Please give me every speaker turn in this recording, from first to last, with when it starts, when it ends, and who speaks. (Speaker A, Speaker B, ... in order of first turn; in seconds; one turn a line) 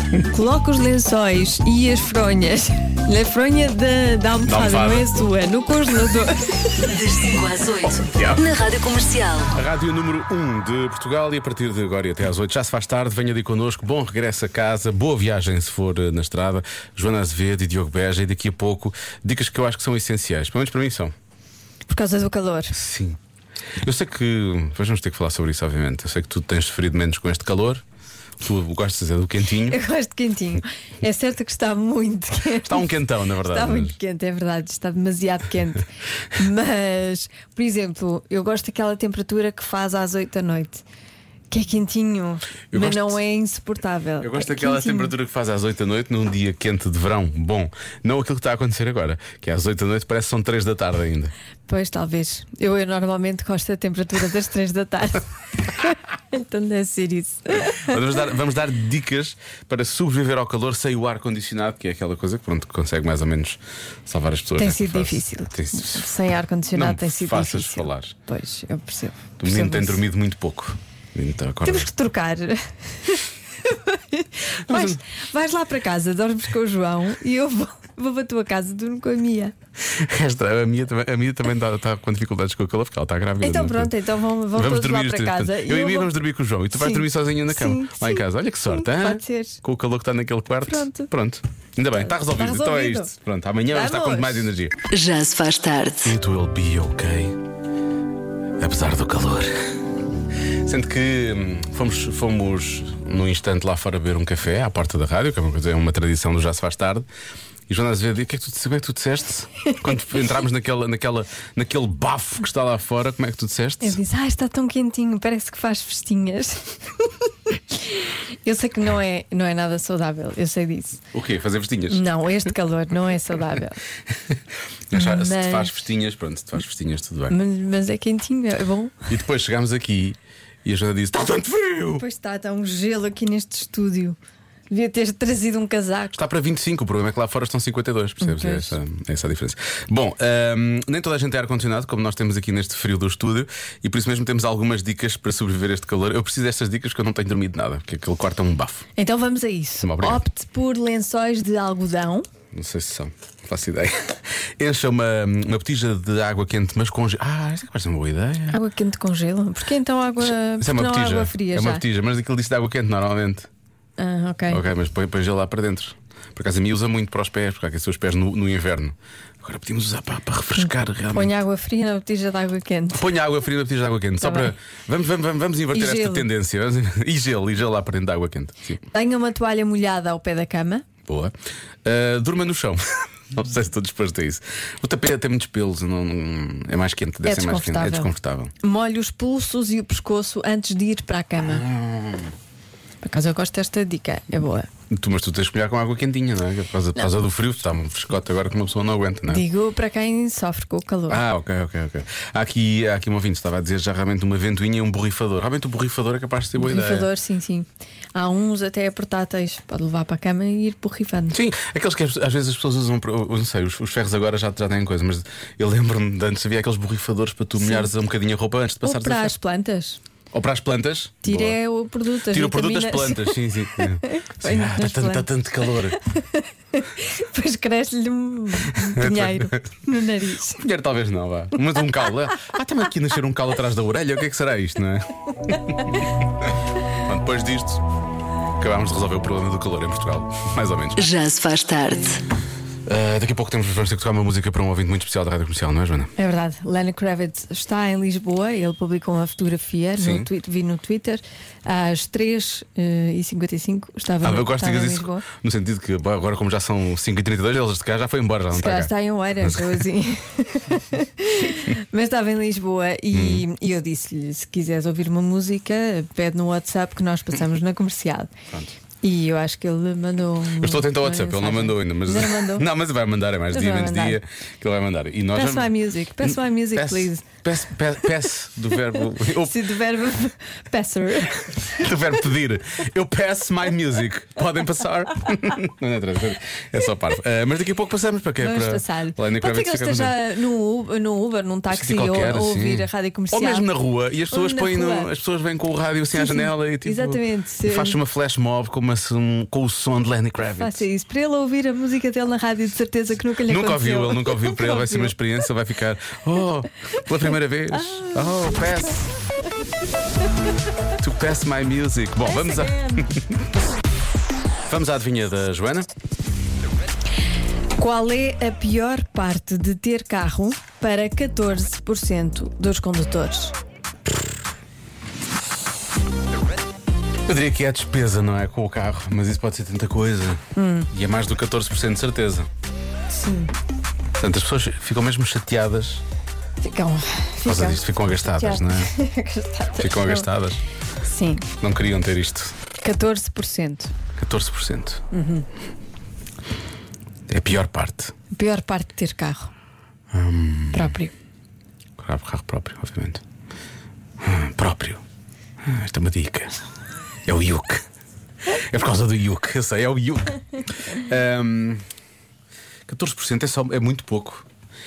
Speaker A: 0.3-6.9
Speaker B: 4.4-5.1
Speaker C: 6.8-9.5
Speaker B: 8.1-8.5
Speaker B: 9.5-21.1
Speaker A: 21.9-22.8
Speaker B: 22.7-23.2
Speaker B: 23.8-27.8
Speaker B: 28.4-29.8
Speaker A: 29.6-40.8
Speaker B: 32.6-34.0
Speaker A: 41.5-45.1
Speaker B: 42.7-43.2
Speaker B: 44.2-51.3
Speaker A: 51.6-58.0
Speaker B: 57.8-66.1
Speaker A: 64.6-70.0
Speaker B: 66.7-68.1
Speaker B: 69.4-71.9
Speaker A: 71.6-79.5
Speaker B: 74.6-75.0
Speaker B: 79.8-83.9
Speaker A: 83.4-86.2
Speaker B: 84.5-94.8
Speaker A: 86.7-89.6
Speaker A: 90.6-91.1
Speaker A: 92.1-93.1
Speaker A: 93.7-94.5
Speaker C: 94.9-96.1
Speaker B: 96.0-97.4
Speaker B: 98.6-99.5
Speaker B: 100.6-107.1
Speaker B: 107.7-114.0
Speaker A: 113.8-121.0
Speaker B: 121.1-122.0
Speaker A: 121.9-123.8
Speaker B: 124.9-127.3
Speaker A: 124.9-125.8
Speaker A: 127.3-129.0
Speaker B: 129.1-132.0
Speaker A: 132.0-134.2
Speaker A: 134.7-136.2
Speaker B: 136.1-148.8
Speaker A: 138.2-138.8
Speaker A: 149.0-152.3
Speaker B: 149.8-150.2
Speaker B: 152.5-158.6
Speaker A: 158.5-161.8
Speaker B: 160.6-163.5
Speaker A: 164.0-164.6
Speaker B: 164.5-171.4
Speaker A: 170.6-173.1
Speaker B: 172.9-178.8
Speaker A: 174.2-174.5
Speaker A: 175.7-176.3
Speaker A: 178.9-180.8
Speaker B: 181.1-181.3
Speaker B: 181.8-188.5
Speaker A: 187.2-191.6
Speaker B: 191.4-192.3
Speaker A: 193.0-194.7
Speaker B: 194.9-199.4
Speaker A: 199.3-201.2
Speaker B: 201.1-207.1
Speaker A: 206.6-211.4
Speaker B: 211.3-219.3
Speaker A: 217.6-217.9
Speaker A: 218.8-220.0
Speaker B: 220.3-221.6
Speaker A: 221.2-230.6
Speaker B: 222.3-226.0
Speaker B: 228.7-229.8
Speaker B: 230.5-236.0
Speaker B: 237.0-237.8
Speaker B: 238.6-241.0
Speaker C: 240.9-242.2
Speaker B: 242.8-246.1
Speaker A: 246.2-255.2
Speaker B: 250.0-250.3
Speaker B: 254.2-259.8
Speaker A: 258.5-268.3
Speaker B: 263.1-263.4
Speaker A: 269.0-272.7
Speaker B: 270.6-279.6
Speaker A: 273.5-274.2
Speaker A: 275.3-277.4
Speaker A: 279.4-281.9
Speaker B: 281.7-290.2
Speaker A: 288.4-293.7
Speaker B: 291.7-300.9
Speaker A: 294.3-295.1
Speaker A: 296.1-298.0
Speaker A: 300.6-305.1
Speaker B: 303.5-309.0
Speaker A: 307.7-308.6
Speaker B: 311.0-313.4
Speaker A: 312.3-313.0
Speaker B: 314.7-315.9
Speaker A: 317.8-323.6
Speaker B: 327.2-332.5
Speaker A: 330.6-330.9
Speaker A: 333.1-333.5
Speaker B: 334.2-336.0
Speaker A: 336.6-340.3
Speaker B: 337.4-338.9
Speaker B: 339.8-340.6
Speaker A: 341.0-341.5
Speaker B: 341.6-342.5
Speaker A: 342.8-343.9
Speaker B: 344.2-345.0
Speaker A: 345.1-345.5
Speaker B: 347.3-348.1
Speaker A: 348.3-349.5
Speaker B: 350.1-350.9
Speaker A: 350.7-351.1
Speaker B: 352.0-353.2
Speaker B: 354.2-355.0
Speaker B: 355.6-356.6
Speaker B: 357.2-357.8
Speaker B: 358.5-361.8
Speaker B: 362.9-364.4